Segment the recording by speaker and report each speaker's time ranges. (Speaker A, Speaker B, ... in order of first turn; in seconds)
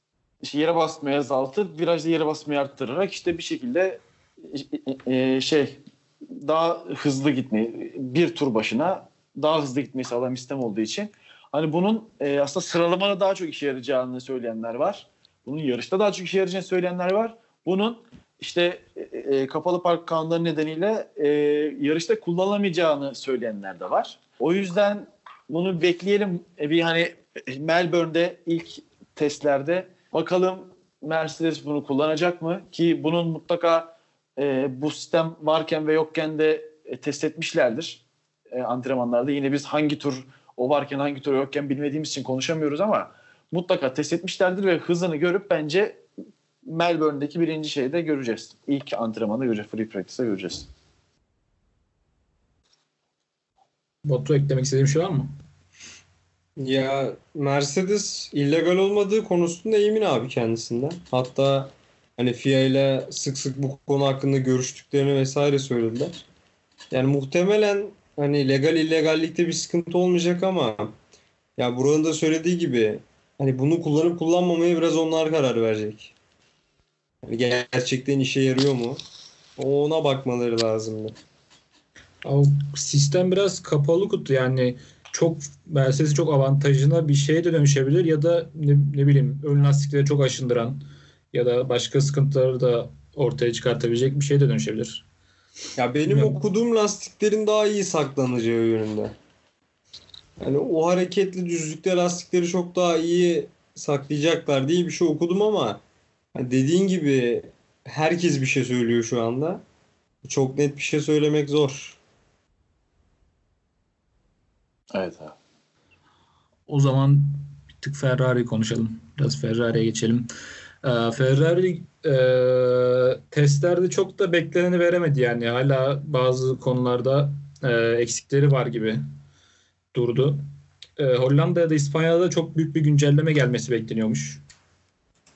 Speaker A: 0.4-46.0, 46.6-50.7, 114.9-115.4
Speaker B: 54.0-55.3, 82.2-95.0, 96.1-96.4, 116.7-120.3, 120.8-129.0, 129.9-130.4, 131.0-134.4
Speaker C: 56.6-66.2, 66.9-71.0, 71.6-76.1, 77.2-79.0, 79.6-81.2, 95.8-99.2, 100.4-105.8, 106.3-109.6, 110.2-112.0